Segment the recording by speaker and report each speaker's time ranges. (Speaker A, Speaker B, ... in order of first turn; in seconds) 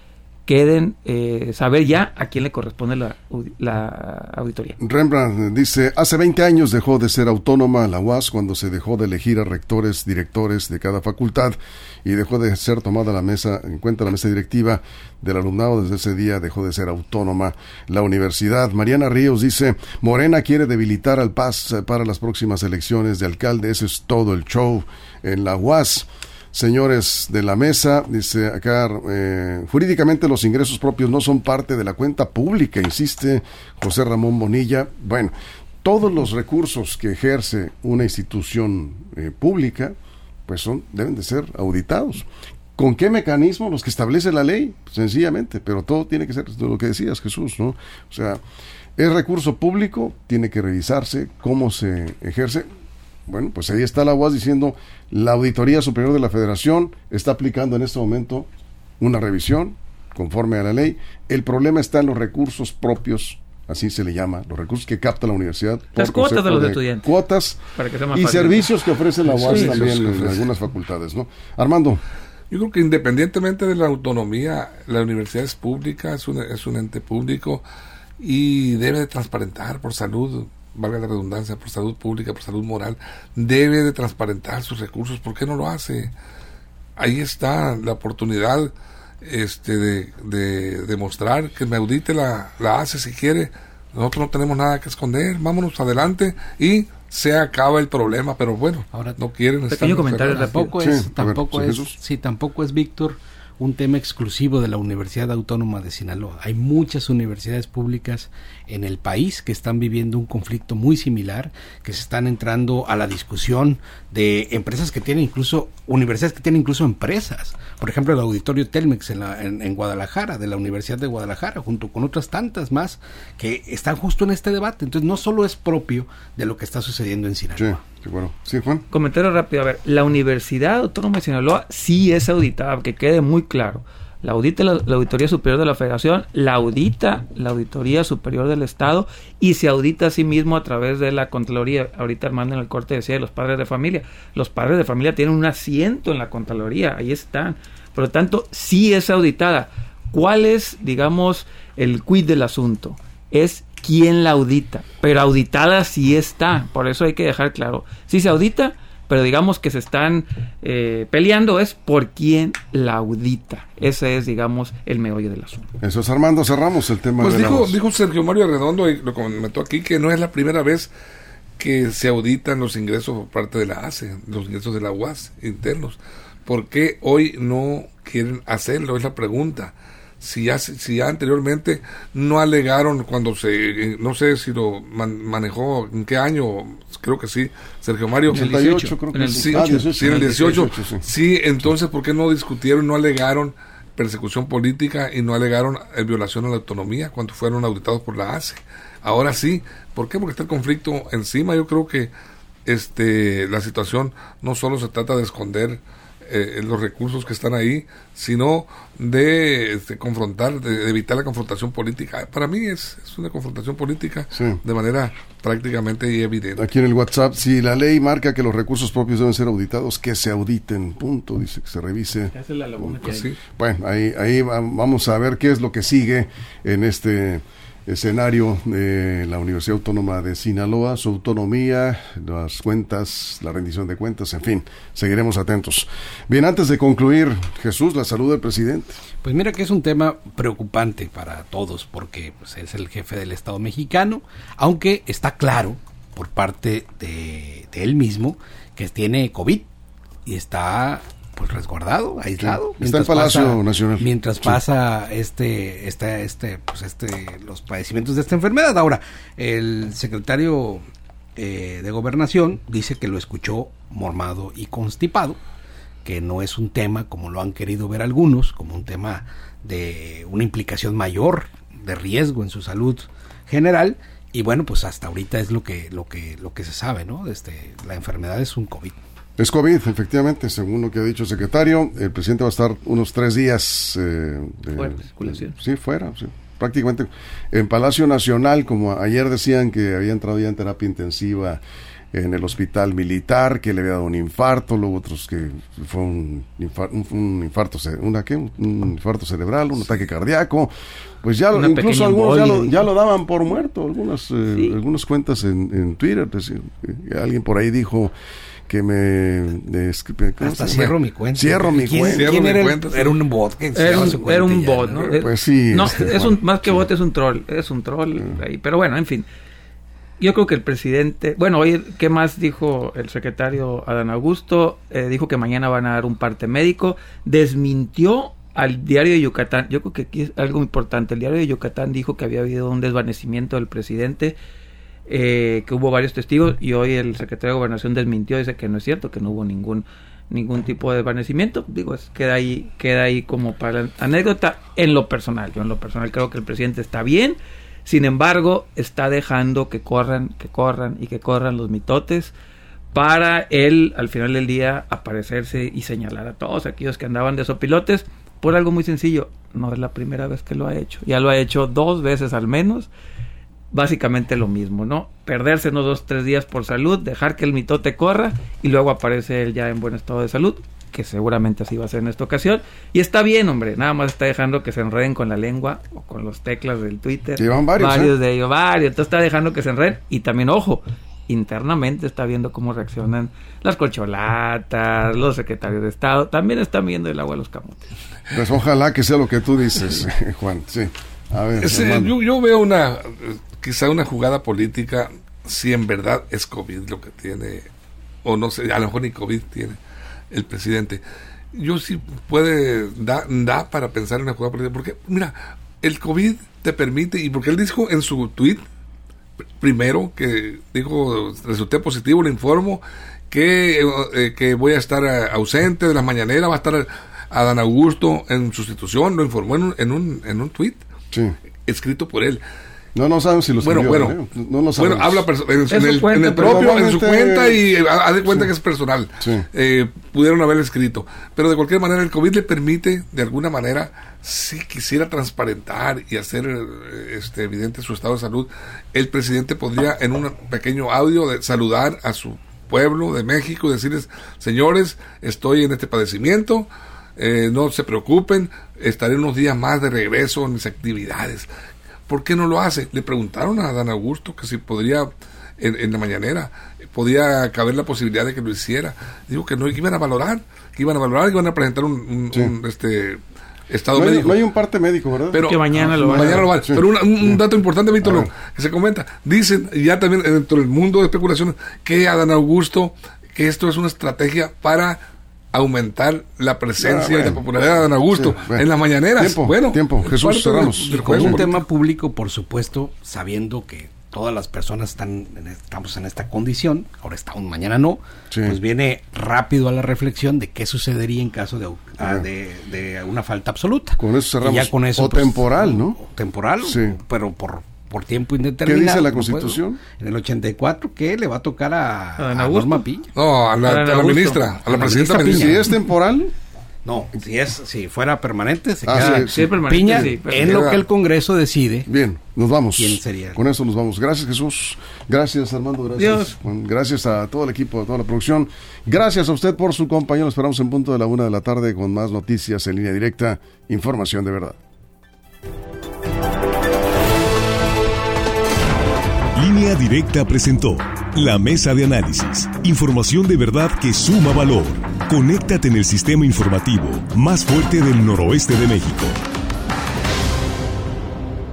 Speaker A: 0.5-4.8, 66.0-67.1, 67.8-68.7, 69.4-69.8, 99.7-100.7, 128.9-165.7, 188.3-190.6, 222.3-223.3, 284.7-285.6, 301.5-302.9, 313.7-319.3, 320.2-334.4, 335.1-352.3, 352.9-362.9, 363.7-387.9, 425.7-426.8, 465.4-466.5, 502.2-502.9, 503.6-504.5, 508.9-510.7, 516.0-516.4
Speaker B: 4.8-39.9, 40.5-48.4, 49.0-52.7, 53.3-58.5, 59.0-72.0, 100.8-102.0, 127.6-128.8, 165.8-167.8, 188.3-191.1, 214.3-214.6, 216.6-239.0, 252.4-254.6, 279.4-291.6, 292.1-300.7, 301.2-308.1, 308.7-312.3, 315.2-316.9, 377.4-378.1, 388.3-392.1, 422.9-425.3, 426.4-427.6, 463.9-467.4, 468.0-468.3, 476.8-477.4, 478.1-478.6, 479.2-481.5, 488.3-488.6, 492.0-492.3, 494.0-496.0, 496.6-497.0, 498.6-499.8, 504.9-506.3, 508.9-510.1, 511.9-524.6
Speaker C: 69.3-70.5, 72.5-77.7, 78.2-86.1, 87.0-100.5, 167.2-170.9, 171.6-188.7, 189.3-202.1, 202.7-216.7, 223.1-223.4, 311.9-313.2, 313.9-314.2, 391.6-397.7, 398.2-399.8, 400.3-401.0, 401.5-408.6, 409.6-420.9, 421.7-422.4, 423.6-424.2, 424.8-451.5, 452.1-464.4, 465.3-475.0, 475.5-481.6, 503.2-505.7, 510.3-510.9
Speaker D: 98.9-99.2, 100.3-127.8, 239.2-249.7, 250.3-265.4, 266.0-279.0, 310.4-315.1, 480.9-503.1, 504.7-505.6, 506.9-511.9, 512.8-513.4
Speaker E: 529.4-539.1